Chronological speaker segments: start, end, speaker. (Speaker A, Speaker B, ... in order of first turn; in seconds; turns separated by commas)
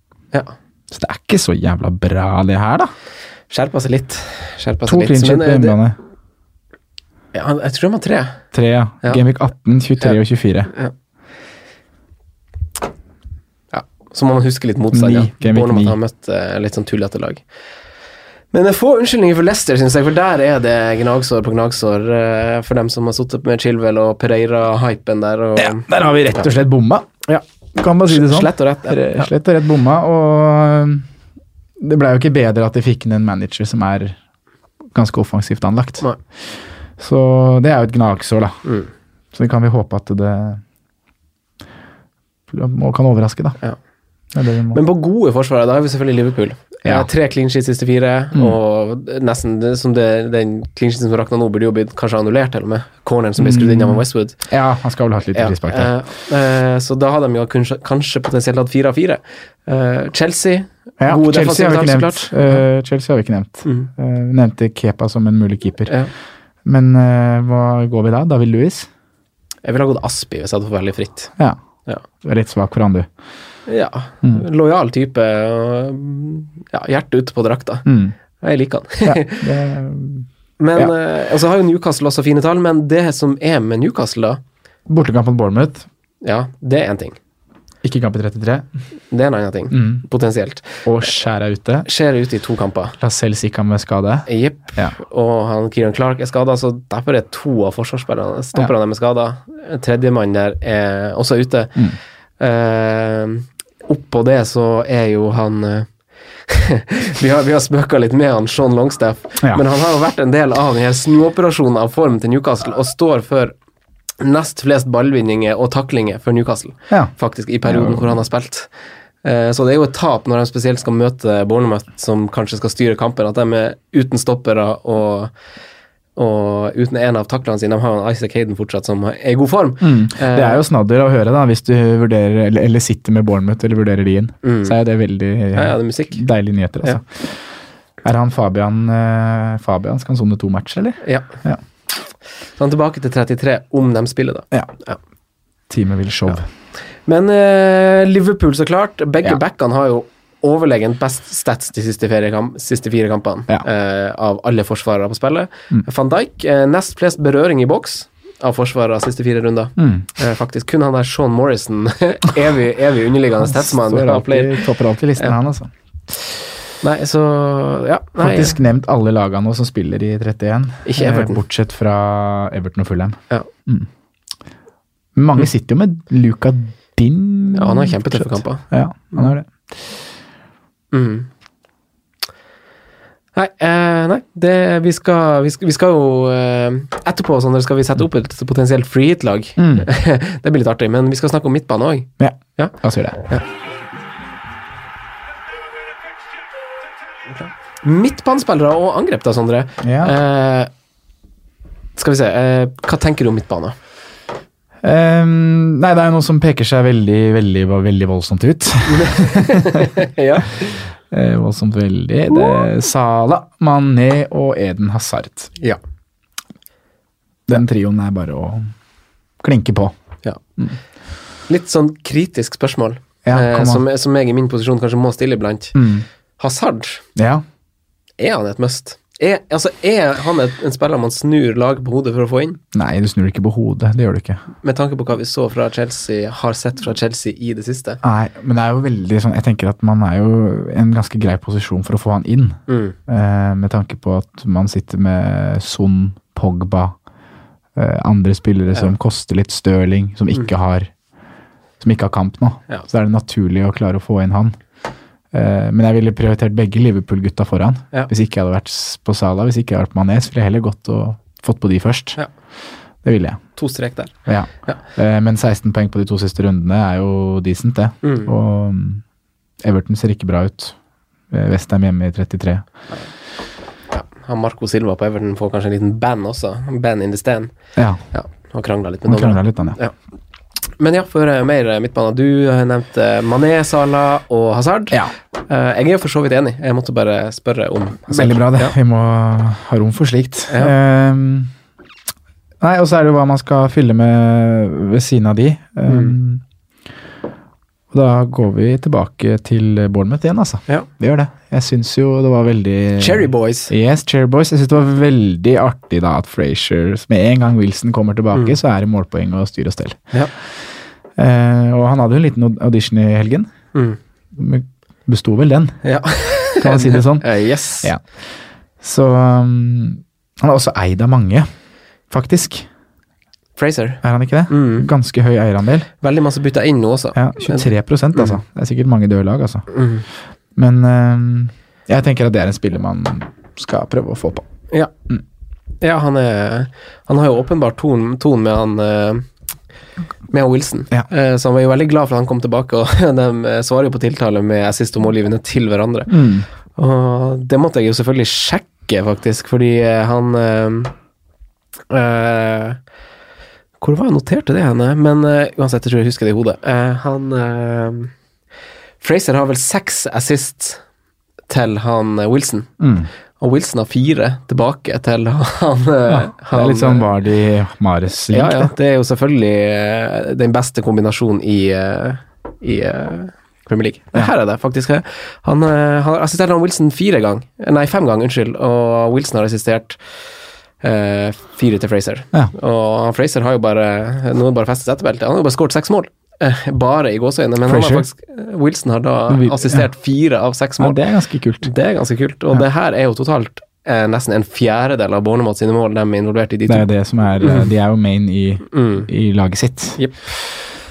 Speaker A: 0.9-2.9, Speaker B: 3.5-5.8, Speaker A: 4.8-6.0, Speaker B: 7.3-8.4, Speaker A: 8.5-10.7, Speaker B: 13.7-17.4, Speaker A: 14.9-16.0, Speaker B: 18.5-26.5, Speaker A: 25.6-27.2, Speaker A: 27.8-31.1, Speaker B: 28.1-29.3, Speaker A: 31.8-34.2, Speaker A: 34.9-36.0, Speaker A: 37.0-38.5, Speaker A: 39.3-40.6, Speaker A: 42.5-43.6, Speaker A: 44.3-44.8, Speaker B: 44.7-54.4, Speaker A: 46.9-47.1, Speaker A: 53.4-55.9, Speaker B: 55.4-62.6, Speaker A: 61.0-65.9, Speaker A: 66.7-68.9, Speaker B: 69.6-71.3, Speaker A: 72.2-73.1, Speaker B: 73.7-77.9, Speaker A: 77.8-78.2, Speaker B: 78.4-79.5, Speaker A: 79.0-80.9, Speaker B: 80.6-84.4, Speaker A: 84.9-85.9, Speaker B: 86.2-87.2, Speaker A: 87.8-88.7, Speaker B: 89.1-90.9, Speaker A: 89.7-90.0, Speaker A: 90.8-91.9, Speaker B: 91.8-93.0, Speaker A: 93.0-94.9, Speaker B: 94.3-101.9, Speaker B: 102.4-105.9, Speaker B: 106.5-113.5, Speaker B: 114.2-118.7, Speaker A: 117.7-118.2, Speaker B: 119.2-125.3, Speaker B: 126.2-130.6, Speaker A: 129.8-137.4, Speaker B: 134.4-134.8, Speaker B: 135.6-136.2, Speaker A: 138.0-141.6, Speaker B: 141.0-141.3, Speaker B: 142.6-145.0, Speaker A: 145.7-146.5, Speaker B: 147.1-164.6, Speaker A: 159.8-160.1, Speaker A: 163.4-165.7, Speaker B: 166.8-168.6, Speaker A: 168.2-173.9, Speaker B: 170.9-171.4, Speaker A: 175.2-179.5, Speaker B: 177.5-179.2, Speaker B: 180.9-181.3, Speaker B: 183.3-192.7, Speaker A: 189.6-189.9, Speaker A: 192.2-193.2, Speaker B: 197.4-200.7, Speaker A: 199.8-200.2, Speaker B: 202.0-203.8, Speaker A: 204.8-209.9, Speaker B: 208.9-210.8, Speaker A: 211.1-215.5, Speaker A: 217.5-218.7, Speaker A: 219.4-219.9, Speaker B: 221.5-225.8, Speaker A: 223.2-223.8, Speaker A: 225.7-226.1, Speaker B: 226.4-227.0, Speaker A: 227.2-227.4, Speaker B: 228.2-232.6, Speaker A: 232.7-234.4, Speaker B: 234.6-238.0, Speaker A: 238.0-246.9, Speaker B: 242.7-243.0, Speaker A: 247.8-250.9, Speaker A: 251.8-254.6, Speaker A: 255.3-262.2, Speaker A: 263.0-263.4, Speaker B: 263.6-264.1, Speaker A: 264.3-269.0, Speaker B: 268.0-268.3, Speaker A: 269.6-270.8, Speaker A: 271.3-272.6, Speaker B: 273.9-277.5, Speaker A: 277.8-278.0, Speaker B: 278.1-279.9, Speaker A: 279.1-279.8, Speaker B: 280.8-288.7, Speaker A: 288.1-291.5, Speaker B: 290.5-290.7, Speaker A: 292.6-296.4, Speaker B: 295.9-296.1, Speaker A: 297.9-310.1, Speaker B: 303.0-303.7, Speaker A: 311.2-313.5, Speaker A: 314.3-315.8, Speaker B: 315.8-317.9, Speaker A: 316.6-318.0, Speaker A: 318.8-321.5, Speaker A: 322.1-322.7, Speaker B: 323.6-324.9, Speaker A: 324.0-325.9, Speaker B: 326.0-328.4, Speaker A: 327.1-329.7, Speaker B: 329.7-330.1, Speaker A: 330.6-334.5, Speaker B: 335.8-339.3, Speaker B: 340.3-346.2, Speaker A: 346.1-346.5, Speaker B: 346.8-350.9, Speaker B: 351.9-352.8, Speaker B: 353.8-358.1, Speaker B: 359.0-360.8, Speaker B: 361.5-362.7, Speaker A: 362.8-363.1, Speaker B: 363.4-367.1, Speaker A: 366.1-368.7, Speaker B: 368.3-380.0, Speaker B: 380.8-391.0, Speaker A: 387.6-388.1, Speaker A: 389.3-389.9, Speaker A: 390.8-391.7, Speaker B: 391.6-396.9, Speaker A: 396.7-400.0, Speaker B: 397.4-397.7, Speaker B: 398.7-399.1